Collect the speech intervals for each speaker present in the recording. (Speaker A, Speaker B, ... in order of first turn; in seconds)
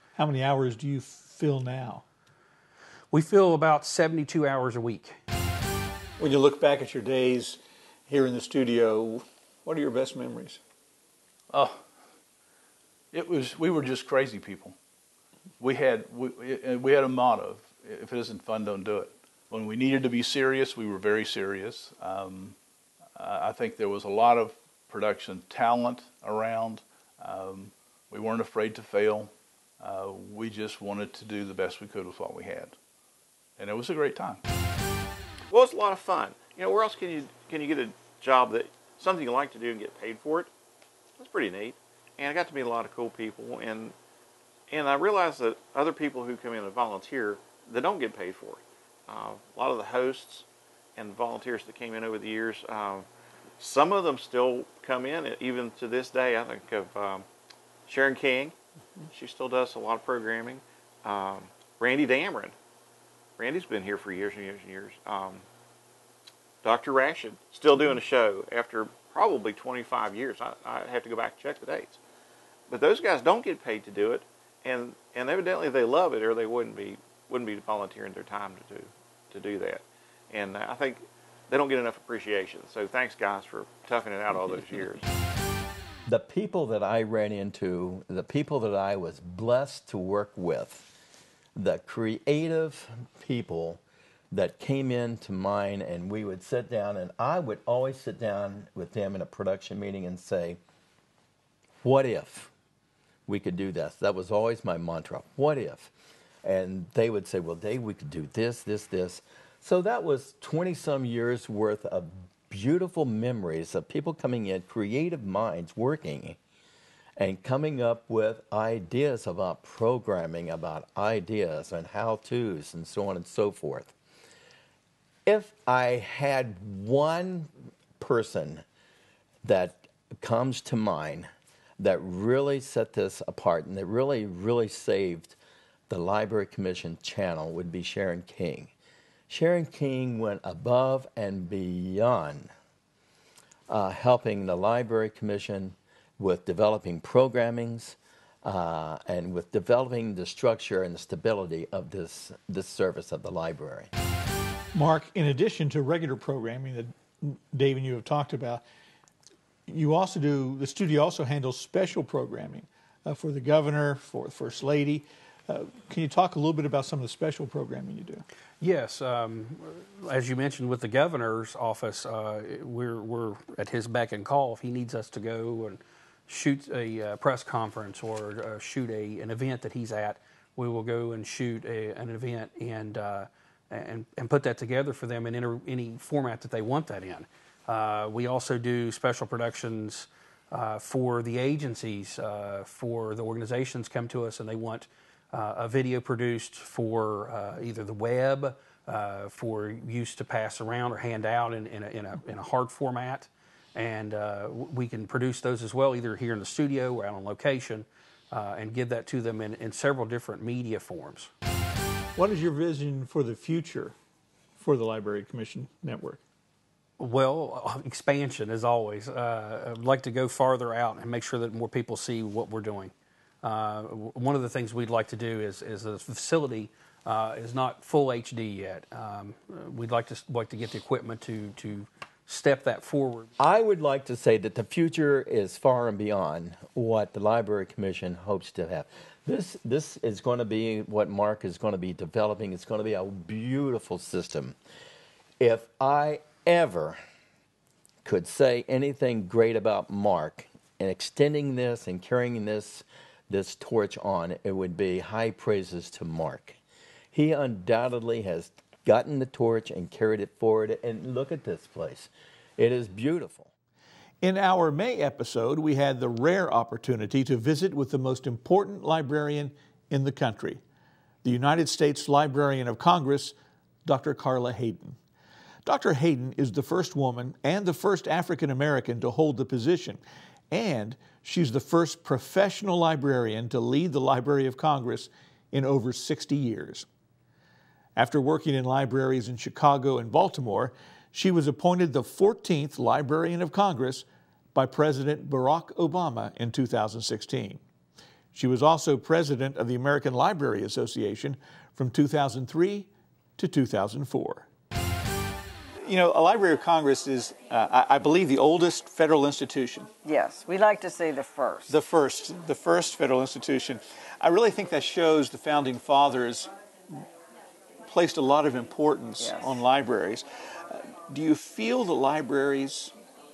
Speaker A: 0.1-2.0, 6.2-10.6, 154.7-158.6, 159.7-168.2, 212.2-213.9, 214.6-216.2, 264.2-270.6, 271.2-273.3, 273.9-274.9, 275.6-286.9, 287.9-297.6, 298.3-304.5, 305.8-309.9, 311.7-316.5, 317.9-322.9
Speaker B: 3.1-5.2, 168.6-211.3, 217.0-233.3
Speaker C: 11.5-11.8, 13.1-14.7, 15.6-22.6, 23.1-32.7, 33.6-34.4
Speaker D: 35.5-40.5, 41.2-43.9, 44.7-50.4, 51.0-53.0, 53.6-57.2, 57.9-58.5, 59.1-62.5, 63.4-65.4, 66.6-72.0, 72.7-85.1
Speaker E: 86.1-90.9, 91.5-100.6, 101.8-102.5, 103.3-105.9, 106.4-116.4, 117.2-123.9, 125.2-128.6, 129.4-135.3, 135.9-138.7, 139.3-142.5, 143.7-153.9, 233.4-244.6, 245.4-247.0, 248.0-256.6, 257.1-263.5
Speaker F: 310.0-311.8, 319.2-319.6